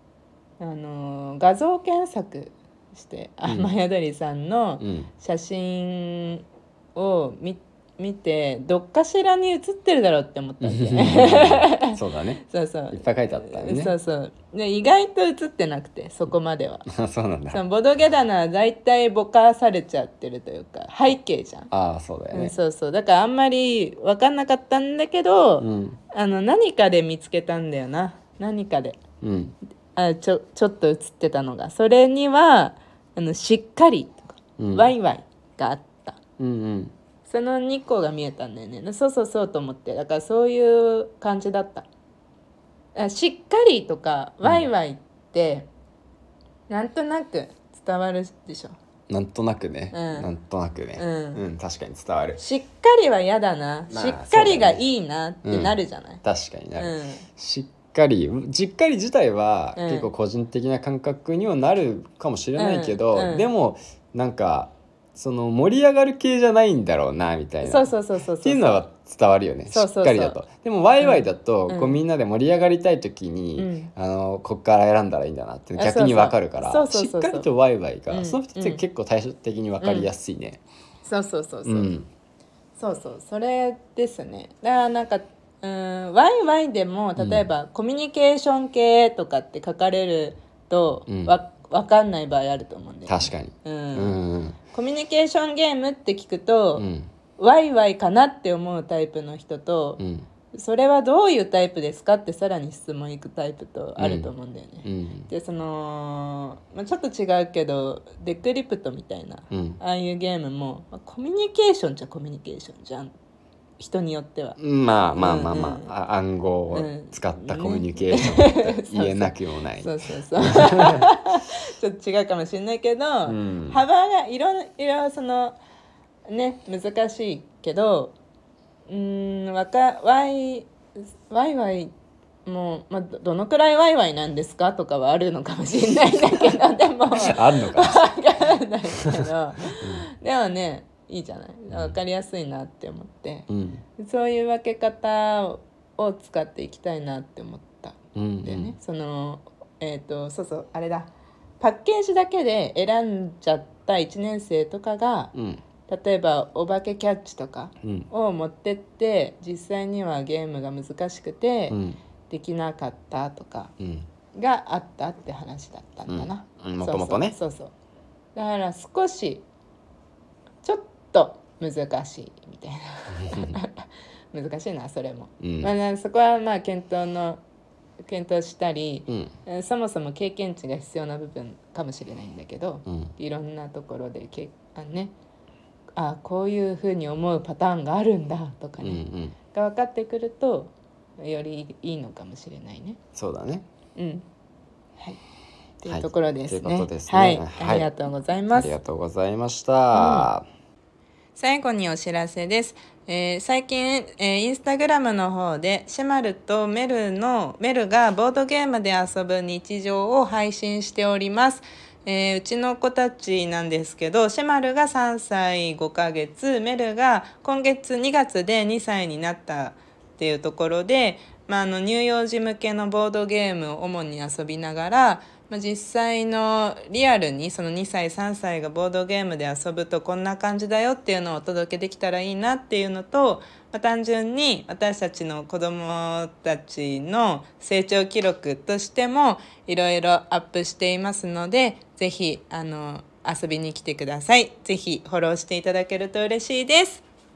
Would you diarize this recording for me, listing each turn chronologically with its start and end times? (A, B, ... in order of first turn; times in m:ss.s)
0:00.6-0:16.9 A
0:04.8-0:05.1 B
0:10.6-0:13.9 B
0:16.9-0:17.6 B
0:17.5-0:21.7 A
0:21.7-0:22.5 B
0:22.3-0:29.0 A
0:25.6-0:26.0 B
0:29.2-0:29.5 B
0:30.0-0:36.2 A
0:34.6-0:34.9 B
0:36.4-0:36.9 B
0:37.2-0:41.9 A
0:43.0-0:45.7 A
0:46.7-0:48.8 A
0:49.1-0:52.4 B
0:49.9-0:50.3 A
0:51.0-0:51.4 A
0:52.4-0:56.2 A
0:53.9-0:54.8 B
0:55.4-1:20.6 B
0:56.8-0:57.2 A
0:59.8-1:00.1 A
1:02.6-1:03.5 A
1:07.6-1:08.8 A
1:09.7-1:10.4 A
1:11.0-1:12.0 A
1:13.6-1:13.9 A
1:15.8-1:17.5 A
1:18.1-1:18.8 A
1:19.8-1:20.1 A
1:21.0-1:21.9 A
1:21.6-1:22.1 B
1:22.8-1:36.9 A
1:27.2-1:27.4 B
1:31.1-1:31.4 B
1:33.1-1:34.6 B
1:36.8-1:37.1 B
1:37.4-1:40.0 A
1:40.0-1:40.3 B
1:40.5-1:53.1 A
1:44.0-1:44.3 B
1:44.8-1:45.3 B
1:49.5-1:49.8 B
1:53.8-1:54.6 A
1:54.6-2:01.1 B
1:55.1-1:55.9 A
1:56.7-2:05.6 A
2:03.3-2:03.8 B
2:06.3-2:08.1 A
2:08.9-2:11.9 A
2:12.4-2:23.5 A
2:17.1-2:18.1 B
2:19.0-2:20.0 B
2:23.5-2:23.8 B
2:24.0-2:35.3 A
2:28.2-2:28.7 B
2:35.3-2:35.6 B
2:35.9-2:41.8 A
2:37.8-2:38.1 B
2:41.7-2:42.0 B
2:42.3-2:43.7 A
2:43.8-2:44.0 B
2:44.3-2:47.7 A
2:46.1-2:47.4 B
2:48.4-2:49.4 A
2:50.6-2:57.4 A
2:53.1-2:53.6 B
2:55.4-2:55.7 B
2:58.0-3:05.1 A
2:59.1-2:59.3 B
3:02.9-3:03.1 B
3:06.0-3:13.0 A
3:08.8-3:09.4 B
3:13.2-3:13.7 B
3:14.0-3:14.2 A
3:15.8-3:18.8 A
3:15.9-3:17.9 B
3:18.5-3:20.4 B
3:19.9-3:20.3 A
3:21.4-4:07.0 A